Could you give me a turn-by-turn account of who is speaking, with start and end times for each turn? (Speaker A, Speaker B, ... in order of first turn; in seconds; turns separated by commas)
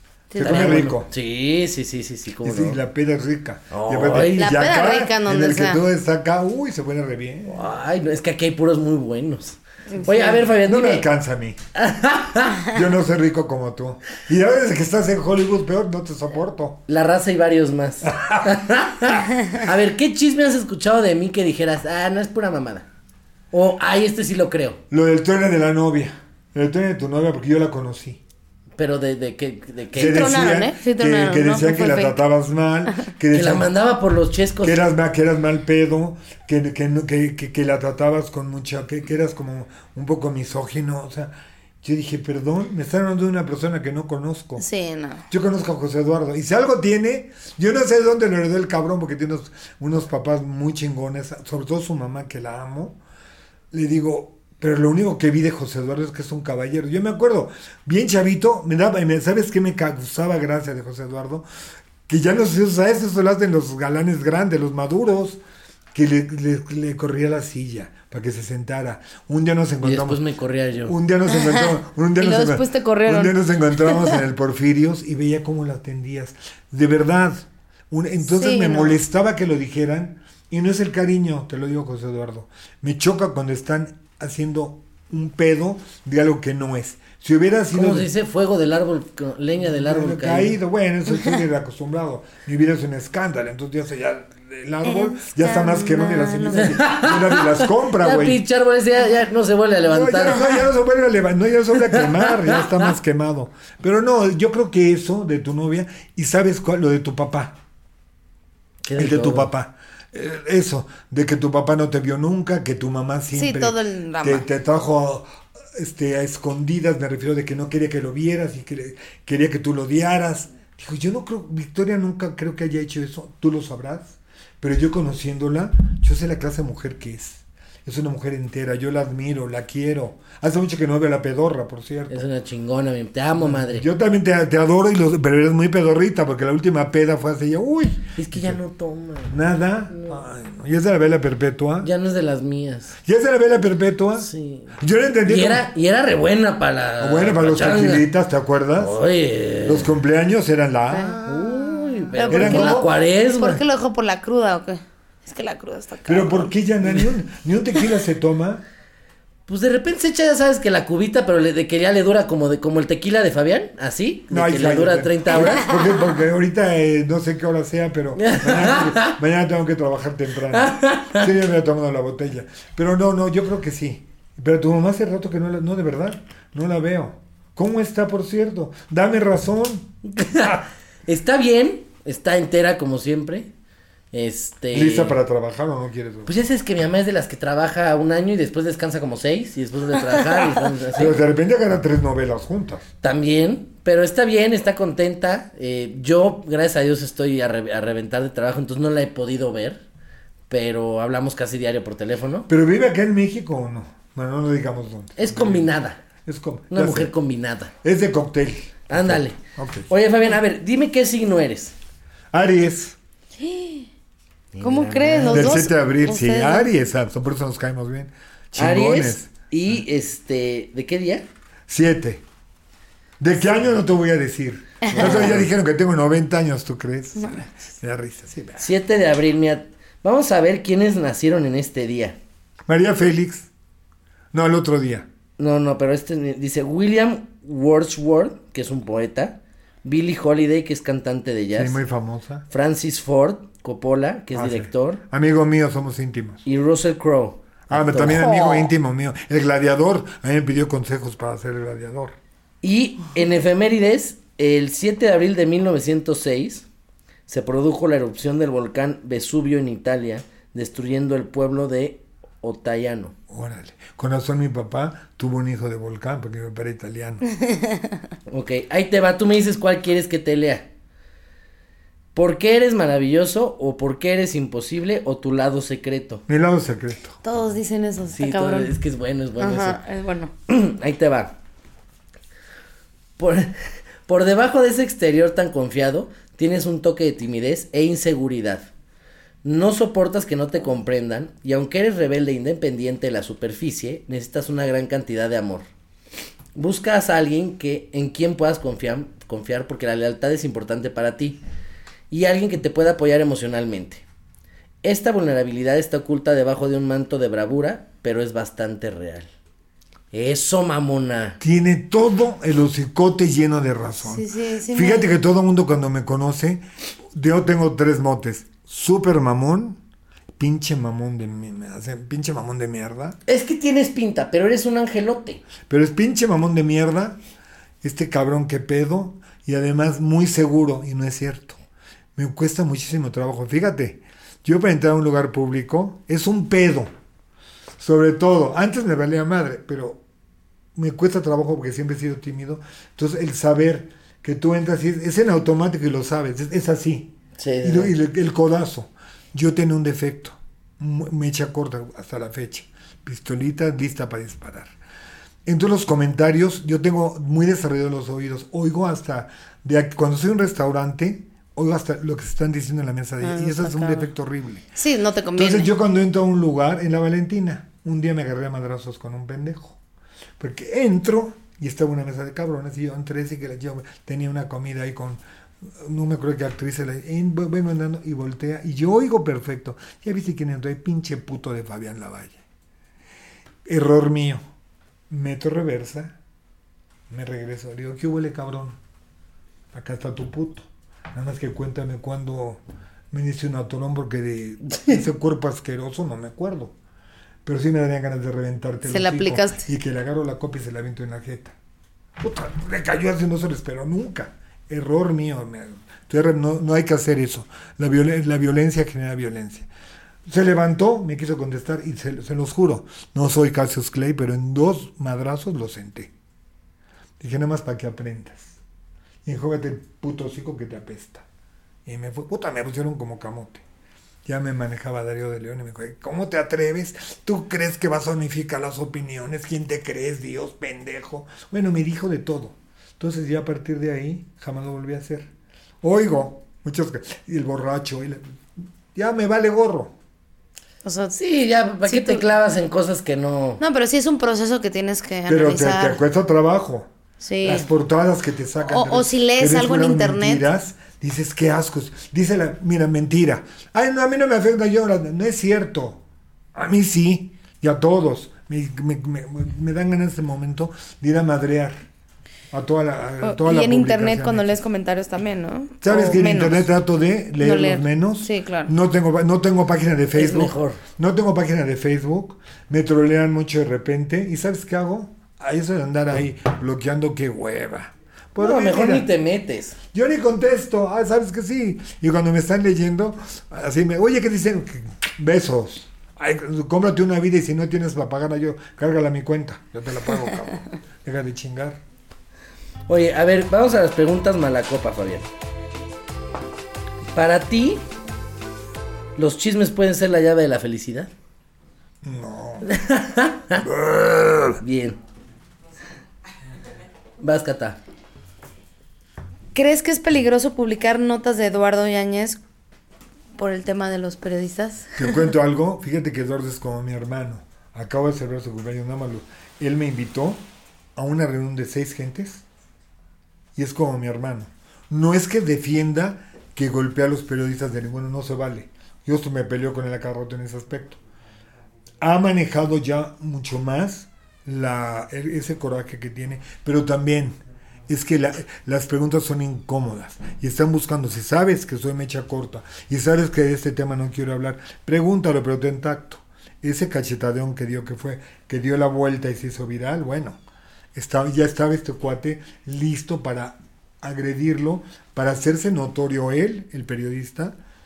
Speaker A: 0.3-0.9, Speaker B: 0.4-1.1, Speaker C: 0.4-2.8, Speaker B: 2.4-7.7, Speaker C: 3.7-4.5, Speaker A: 4.1-5.8, Speaker C: 7.5-11.1, Speaker A: 9.9-10.4, Speaker B: 10.6-11.6, Speaker C: 11.8-12.7, Speaker B: 12.6-16.8, Speaker C: 16.9-22.9, Speaker B: 18.1-18.6, Speaker C: 23.5-24.8, Speaker B: 24.9-28.2, Speaker C: 28.8-30.4, Speaker B: 29.9-33.7, Speaker A: 30.0-32.1, Speaker C: 33.3-34.9, Speaker B: 34.6-44.6, Speaker A: 44.6-45.2, Speaker B: 45.3-53.0, Speaker B: 53.7-61.5, Speaker B: 62.1-65.4, Speaker B: 65.9-70.2, Speaker C: 69.8-71.0, Speaker B: 70.9-88.1, Speaker A: 71.3-74.2, Speaker A: 78.3-79.0, Speaker C: 87.7-90.6, Speaker B: 89.6-98.4, Speaker A: 94.9-96.8, Speaker C: 96.6-100.6, Speaker B: 99.9-107.6, Speaker C: 101.8-102.8, Speaker C: 108.8-109.5, Speaker B: 109.0-132.3, Speaker A: 113.3-114.5, Speaker C: 132.1-133.9, Speaker B: 133.4-138.6, Speaker C: 138.2-139.4, Speaker B: 139.3-141.9, Speaker C: 139.9-140.2, Speaker C: 141.8-143.0, Speaker B: 143.1-145.7, Speaker C: 144.2-148.1, Speaker B: 147.0-149.0, Speaker C: 148.8-149.9, Speaker B: 149.6-152.9, Speaker A: 150.9-151.2, Speaker C: 151.2-153.6, Speaker A: 152.1-156.5, Speaker B: 156.1-158.6, Speaker C: 159.5-165.7, Speaker B: 164.3-180.6, Speaker C: 168.2-169.2, Speaker C: 170.5-171.3, Speaker C: 180.1-183.5, Speaker C: 184.1-185.2, Speaker B: 184.7-186.3, Speaker C: 186.3-191.2, Speaker B: 190.9-192.9, Speaker C: 193.0-199.8, Speaker C: 200.5-202.5, Speaker B: 202.5-205.7, Speaker C: 205.2-206.0, Speaker B: 206.2-207.1, Speaker C: 206.7-207.7, Speaker B: 207.8-209.9, Speaker C: 208.9-209.4, Speaker C: 209.9-211.7, Speaker B: 212.3-213.0, Speaker A: 213.4-213.9, Speaker C: 214.6-215.7, Speaker A: 214.6-216.7, Speaker B: 215.3-219.3, Speaker C: 218.6-221.2, Speaker B: 221.7-222.2, Speaker B: 223.2-228.7, Speaker A: 224.8-225.3, Speaker C: 224.9-225.5, Speaker C: 228.6-232.2, Speaker B: 232.7-233.5, Speaker B: 234.3-235.1, Speaker C: 235.4-241.8, Speaker B: 241.6-242.5, Speaker C: 242.5-245.0, Speaker B: 244.3-246.4, Speaker C: 246.4-248.3, Speaker B: 247.7-252.2, Speaker A: 248.1-248.7, Speaker C: 252.6-256.7, Speaker C: 257.3-263.1, Speaker B: 263.3-267.2, Speaker A: 267.4-267.9, Speaker C: 268.3-270.7, Speaker C: 272.1-276.2, Speaker B: 276.3-277.2, Speaker A: 277.2-278.7, Speaker C: 278.1-279.8, Speaker A: 279.4-280.3, Speaker C: 280.5-281.4, Speaker C: 283.2-288.7, Speaker C: 289.4-295.6, Speaker C: 296.6-301.4, Speaker C: 302.1-304.0, Speaker C: 304.8-309.3, Speaker C: 310.1-311.4, Speaker B: 311.4-319.8, Speaker A: 314.0-315.1, Speaker B: 320.4-323.2, Speaker C: 323.3-325.4, Speaker B: 325.7-327.2, Speaker B: 327.8-331.6, Speaker B: 332.2-336.9, Speaker B: 337.8-340.0, Speaker B: 340.8-354.7, Speaker C: 347.4-347.9, Speaker B: 355.5-364.7, Speaker A: 363.2-364.1, Speaker A: 364.8-365.7, Speaker B: 365.4-369.8, Speaker B: 370.4-382.4, Speaker B: 383.6-384.4, Speaker B: 385.1-386.2, Speaker B: 387.1-388.8, Speaker B: 389.7-396.8, Speaker B: 397.4-401.6, Speaker A: 398.9-399.6, Speaker B: 402.2-409.7, Speaker B: 410.3-416.1, Speaker B: 417.2-418.6, Speaker B: 419.2-421.2, Speaker B: 421.9-423.6, Speaker B: 424.2-435.3, Speaker B: 435.8-438.4, Speaker B: 438.9-439.9, Speaker A: 440.8-441.2, Speaker C: 441.1-443.6, Speaker A: 441.9-442.2, Speaker A: 443.6-446.0, Speaker B: 445.3-446.9, Speaker A: 447.2-447.7, Speaker B: 447.4-456.0, Speaker A: 448.6-450.4, Speaker B: 456.6-461.8, Speaker B: 462.5-464.6, Speaker A: 463.2-466.7, Speaker B: 465.8-479.1, Speaker A: 467.4-468.7, Speaker C: 470.1-470.8, Speaker C: 478.4-479.8, Speaker B: 479.9-491.8, Speaker C: 492.9-495.3, Speaker C: 497.1-497.8, Speaker C: 499.2-501.1, Speaker B: 502.0-502.7, Speaker C: 502.6-503.6, Speaker B: 503.6-504.6, Speaker C: 504.6-505.0, Speaker C: 507.2-507.8, Speaker A: 509.5-512.4, Speaker A: 513.4-515.2, Speaker B: 515.0-520.4, Speaker B: 521.0-522.5, Speaker B: 523.6-531.0, Speaker B: 532.0-537.4, Speaker B: 537.9-550.4, Speaker B: 551.0-557.6